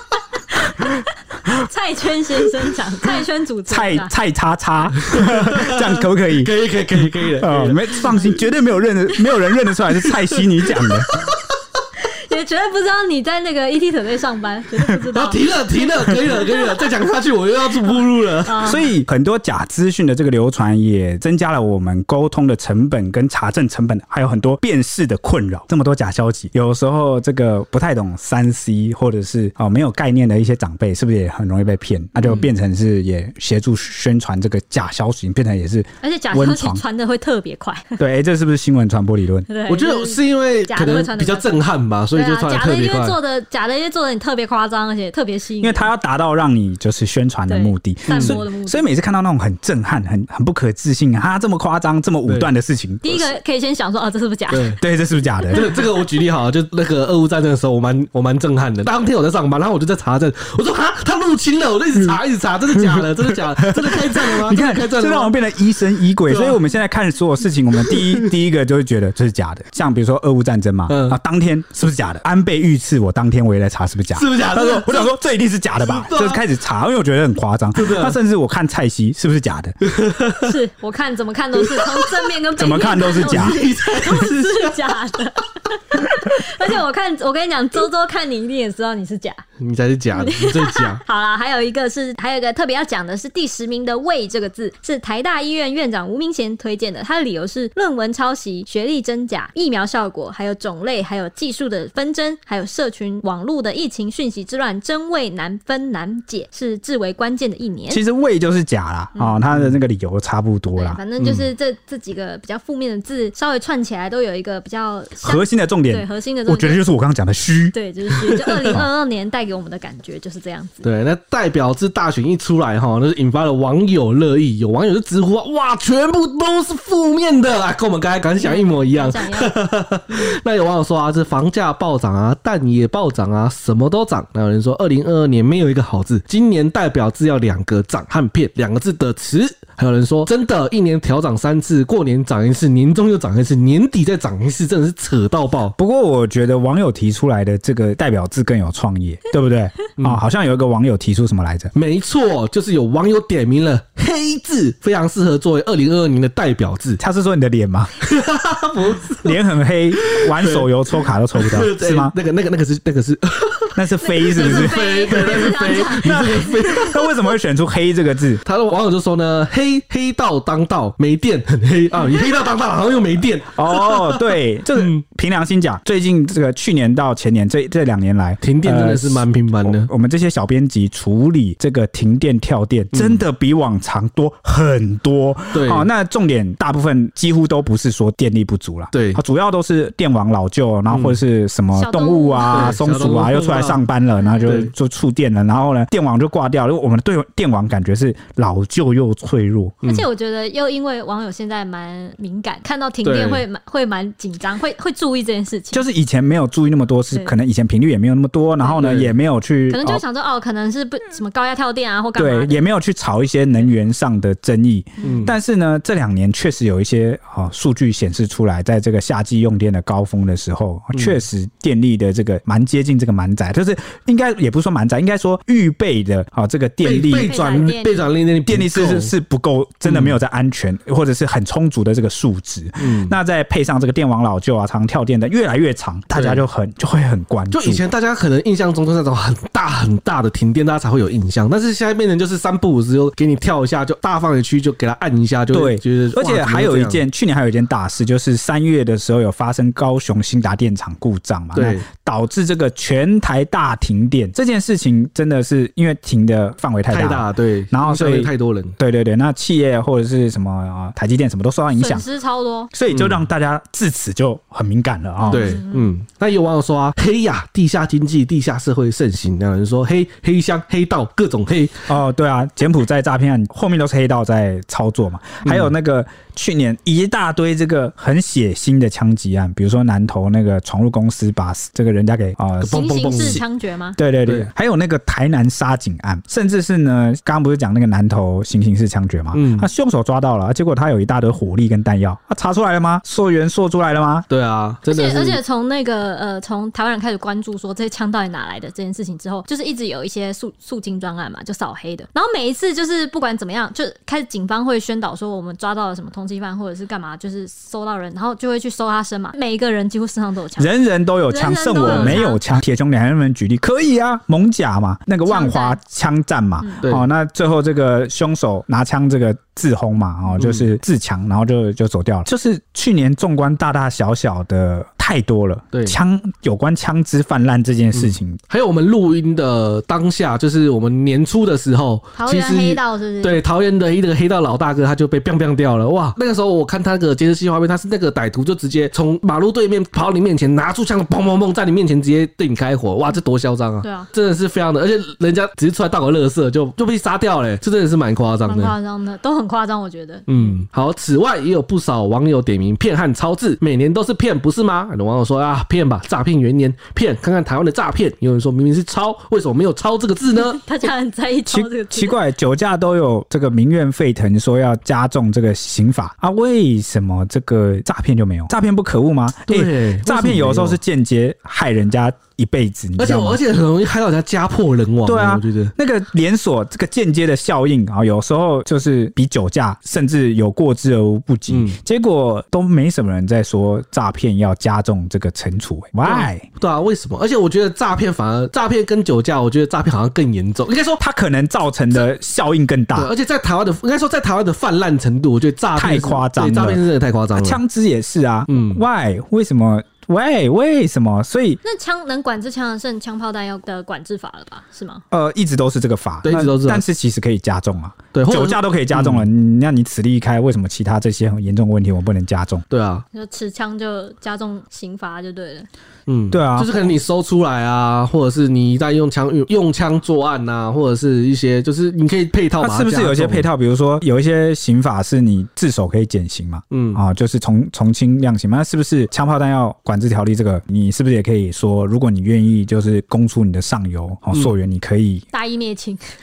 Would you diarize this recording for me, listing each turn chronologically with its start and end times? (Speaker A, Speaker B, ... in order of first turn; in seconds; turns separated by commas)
Speaker A: 0.8-4.1, Speaker B: 3.7-11.1, Speaker C: 5.1-8.2, Speaker C: 10.1-11.3, Speaker A: 12.0-16.7, Speaker C: 15.1-18.7, Speaker A: 18.4-18.9, Speaker B: 18.6-36.8, Speaker A: 36.0-38.0, Speaker B: 38.0-39.5, Speaker A: 39.5-41.5, Speaker C: 39.7-43.2, Speaker A: 42.1-45.9, Speaker B: 45.6-53.3, Speaker A: 47.5-48.9, Speaker C: 48.1-48.4, Speaker A: 53.0-54.8, Speaker C: 54.5-54.8, Speaker B: 54.8-55.8, Speaker C: 55.5-65.3, Speaker B: 63.6-79.8, Speaker C: 66.3-66.6, Speaker C: 67.8-68.2, Speaker C: 70.9-71.2, Speaker C: 74.1-75.1, Speaker C: 75.8-76.4, Speaker C: 77.7-78.2, Speaker C: 79.8-80.5, Speaker A: 80.4-89.4, Speaker C: 81.7-82.0, Speaker B: 82.6-83.6, Speaker C: 83.1-84.8, Speaker C: 89.6-91.0, Speaker A: 90.1-108.0, Speaker B: 107.9-111.0, Speaker A: 110.8-116.8, Speaker C: 111.2-111.5, Speaker B: 115.2-117.7, Speaker A: 117.7-120.8, Speaker C: 118.3-118.8, Speaker C: 120.8-145.7, Speaker A: 128.4-129.6, Speaker A: 130.1-130.3, Speaker B: 145.8-151.7, Speaker C: 151.7-157.0, Speaker B: 157.0-157.9, Speaker C: 158.0-159.4, Speaker B: 159.2-162.1, Speaker C: 159.9-167.2, Speaker B: 163.8-168.4, Speaker A: 164.0-166.2, Speaker C: 168.4-175.0, Speaker B: 173.5-199.8, Speaker C: 178.4-179.9, Speaker C: 182.9-183.2, Speaker C: 185.5-185.9, Speaker C: 188.9-189.2, Speaker C: 190.9-191.2, Speaker A: 191.7-192.8, Speaker C: 192.4-193.8, Speaker A: 194.2-194.6, Speaker C: 194.4-194.7, Speaker A: 199.8-205.8, Speaker C: 203.0-203.4, Speaker B: 205.7-210.0, Speaker C: 208.8-209.1, Speaker A: 209.7-212.6, Speaker B: 212.2-227.3, Speaker A: 215.0-215.3, Speaker C: 215.0-215.3, Speaker C: 220.9-221.2, Speaker C: 226.8-229.1, Speaker A: 227.2-228.1, Speaker B: 228.5-237.8, Speaker C: 229.8-230.2, Speaker C: 232.8-233.1, Speaker C: 236.1-236.4, Speaker C: 237.5-247.0, Speaker B: 245.5-262.0, Speaker C: 251.5-251.8, Speaker C: 256.9-258.7, Speaker A: 261.7-262.7, Speaker B: 262.7-265.6, Speaker C: 262.9-263.2, Speaker A: 265.2-265.9, Speaker C: 265.3-271.9, Speaker B: 271.9-283.4, Speaker C: 275.4-275.7, Speaker C: 282.6-283.4, Speaker A: 282.7-284.0, Speaker B: 284.0-294.2, Speaker C: 289.3-289.7, Speaker C: 294.3-295.4, Speaker A: 294.9-310.7, Speaker B: 310.6-328.4, Speaker A: 311.3-312.4, Speaker C: 311.8-312.2, Speaker A: 315.2-315.8, Speaker C: 316.8-317.1, Speaker C: 320.4-320.7, Speaker C: 327.9-348.7, Speaker A: 332.1-333.4, Speaker A: 343.8-344.1, Speaker A: 348.5-350.5, Speaker C: 350.3-360.6, Speaker A: 360.4-362.1, Speaker B: 361.5-373.4, Speaker C: 369.5-370.8, Speaker C: 373.0-375.7, Speaker B: 375.1-386.4, Speaker C: 381.5-381.8, Speaker C: 386.0-391.0, Speaker B: 391.0-393.1, Speaker C: 392.9-397.6, Speaker B: 395.8-396.8, Speaker B: 397.3-401.6, Speaker C: 398.5-398.8, Speaker A: 401.6-405.0, Speaker B: 405.1-412.6, Speaker C: 406.2-406.8, Speaker C: 408.1-409.3, Speaker C: 412.7-413.0, Speaker A: 413.1-415.7, Speaker C: 416.1-423.4, Speaker B: 416.3-416.7, Speaker B: 422.6-435.2, Speaker C: 426.7-427.0, Speaker A: 435.3-436.0